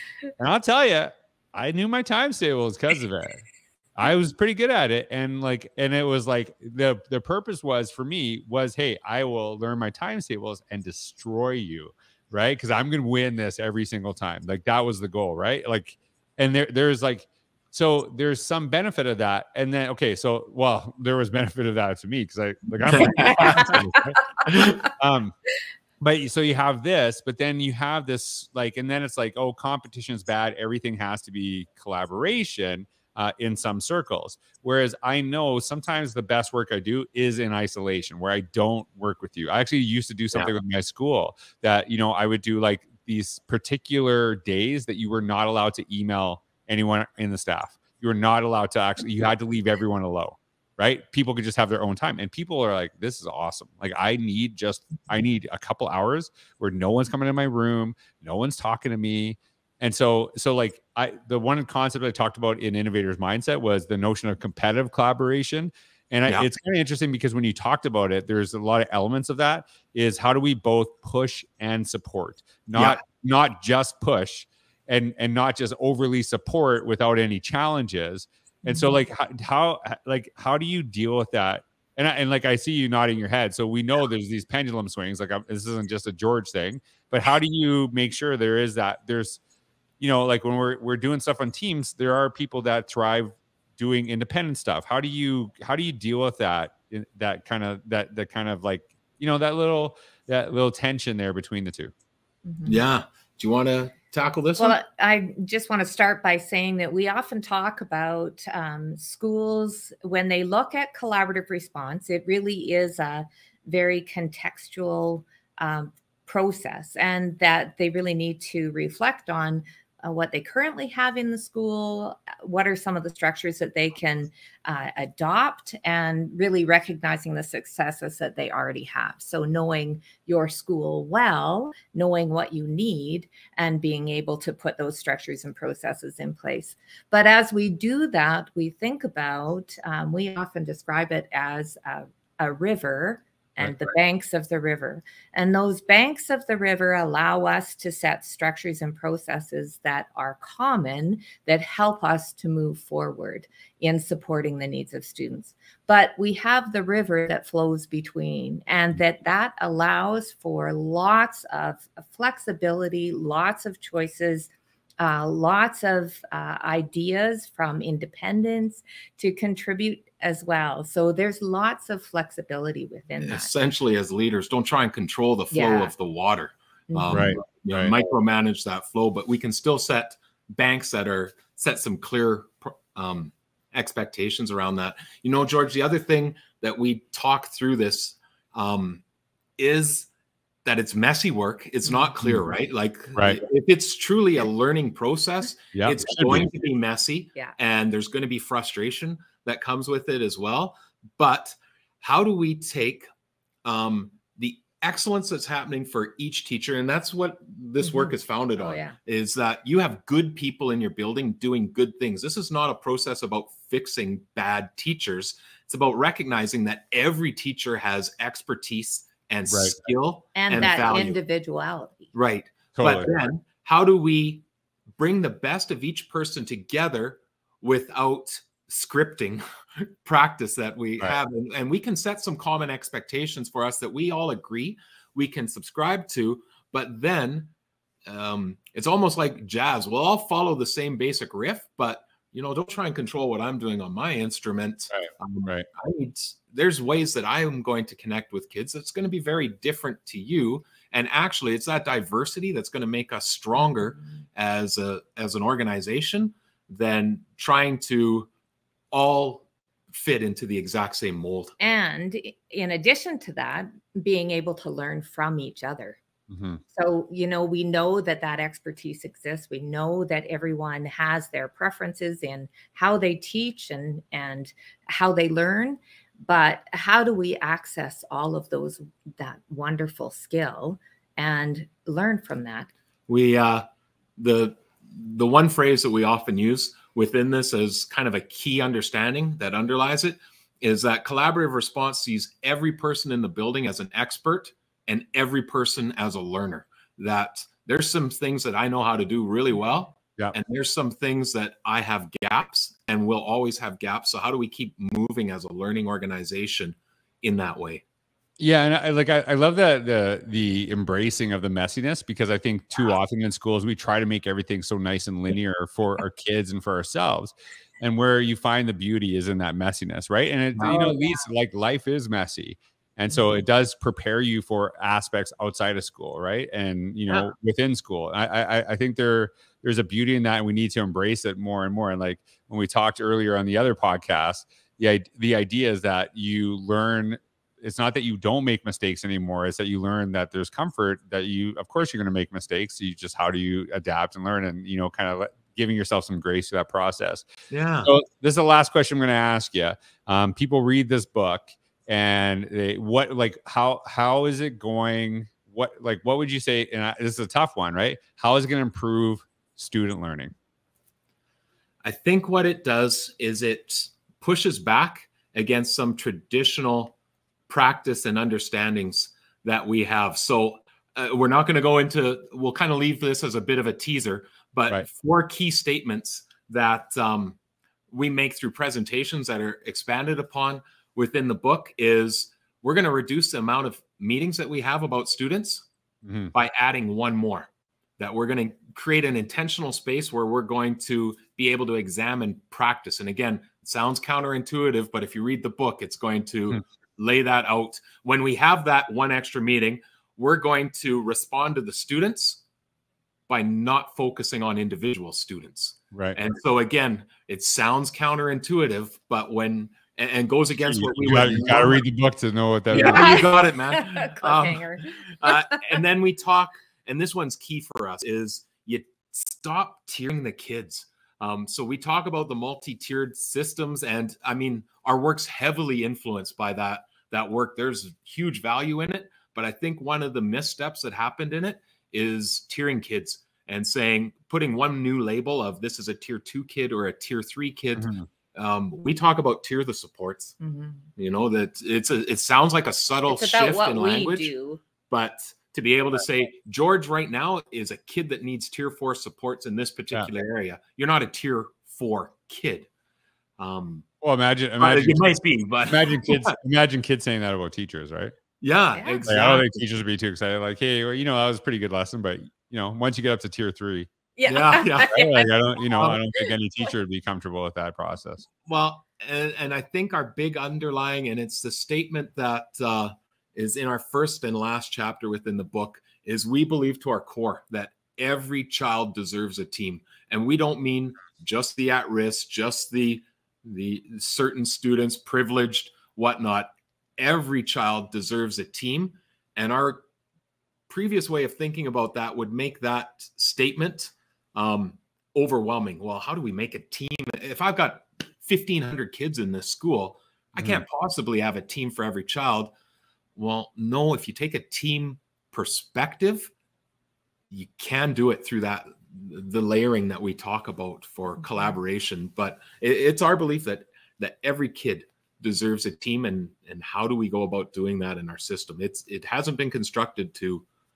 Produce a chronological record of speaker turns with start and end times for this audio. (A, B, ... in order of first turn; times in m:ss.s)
0:00.4-0:24.2 A
0:22.9-0:23.8 B
0:23.2-0:23.8 C
0:24.5-0:24.8 B
0:24.8-0:25.3 A
0:26.0-1:29.4 A
1:12.8-1:13.0 B
1:18.6-1:19.0 C
1:30.0-1:41.9 A
1:42.4-1:42.8 C
1:42.7-1:44.8 B
1:44.6-2:53.5 C
2:53.2-3:09.0 B
2:55.5-2:55.9 C
2:56.9-2:57.4 C
2:57.1-2:58.0 A
3:09.6-3:10.1 B
3:10.6-3:23.1 B
3:13.2-3:13.4 A
3:15.7-3:16.5 A
3:23.6-3:41.2 B
3:27.8-3:29.0 C
3:39.5-3:39.8 A
3:40.4-3:42.1 C
3:42.1-3:44.5 B
3:42.8-3:43.1 A
3:45.0-3:57.5 B
3:58.1-4:18.3 B
4:04.9-4:05.7 A
4:18.9-4:21.5 B
4:21.6-4:26.0 C
4:26.3-4:26.6 A
4:26.7-4:42.7 C
4:43.1-4:43.7 B
4:44.2-5:07.8 B
5:08.4-5:47.3 A
5:20.6-5:21.0 B
5:23.1-5:23.4 B
5:47.5-5:47.9 B
5:47.8-6:00.3 A
6:01.8-6:07.0 B
6:07.5-6:17.4 B
6:17.9-6:25.7 B
6:26.0-6:26.3 A
6:26.3-6:42.4 B
6:43.3-6:51.8 B
6:45.9-6:46.2 A
6:50.7-6:53.1 A
6:52.7-7:20.4 B
6:52.8-6:55.7 C
7:17.8-7:18.1 A
7:20.4-7:20.9 C
7:21.0-7:24.3 B
7:23.1-7:24.6 C
7:24.9-7:32.7 B
7:33.4-7:33.9 B
7:34.0-7:35.1 A
7:34.6-7:36.4 B
7:35.7-7:38.1 A
7:38.4-7:39.6 B
7:38.8-7:39.1 C
7:39.1-7:43.9 A
7:44.2-7:45.3 C
7:44.3-7:45.0 B
7:44.9-7:48.3 A
7:45.7-7:46.0 B
7:48.4-8:09.8 B
8:10.7-8:22.5 B
8:20.4-8:20.6 A
8:23.2-8:26.3 B
8:27.3-8:40.4 B